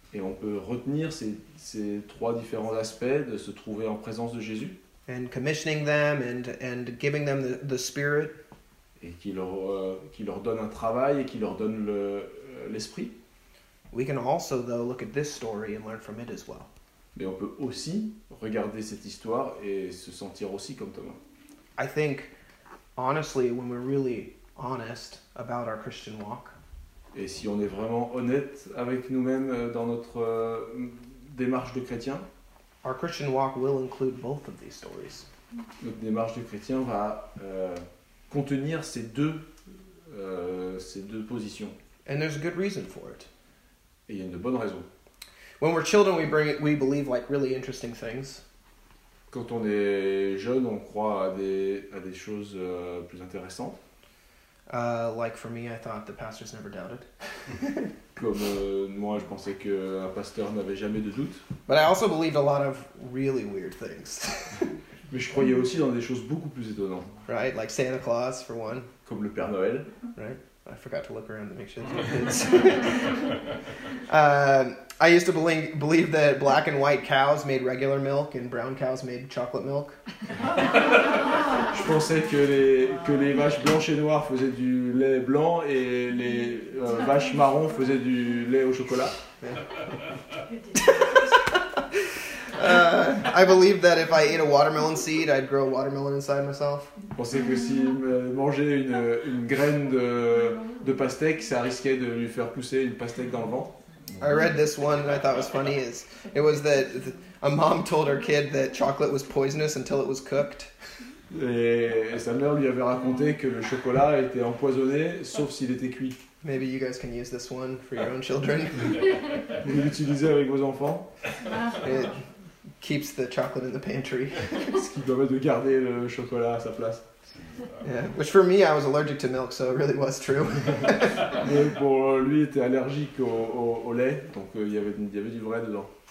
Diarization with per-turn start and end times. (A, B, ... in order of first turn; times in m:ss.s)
0:00.1-0:04.8 A
0:05.1-0:08.4 B
0:09.0-0:13.2 A
0:13.9-0:16.7 B
0:17.2-0:21.2 A
0:21.8-0:22.3 B
0:23.0-0:26.6 B
0:27.1-0:32.3 A
0:32.8-0:35.3 B
0:35.8-0:41.8 A
0:42.1-0:43.3 B
0:44.1-0:44.9 A
0:45.6-0:48.4 B
0:49.3-0:53.8 A
0:54.7-0:57.9 B
0:58.2-1:01.4 A
1:01.7-1:04.7 B
1:05.1-1:07.1 A
1:07.3-1:08.9 B
1:09.0-1:09.9 A
1:10.2-1:13.4 B
1:14.0-1:20.0 B
1:20.9-1:29.2 A
1:29.4-1:29.7 B
1:30.8-1:36.9 B
1:37.2-1:43.8 A
1:44.2-1:50.7 B
1:51.3-1:56.2 A
1:56.4-1:59.4 B
1:59.5-2:01.1 A
2:01.7-2:02.2 B
2:02.8-2:04.8 B
2:04.6-2:07.1 A
2:07.8-2:11.4 B
2:11.3-2:15.9 A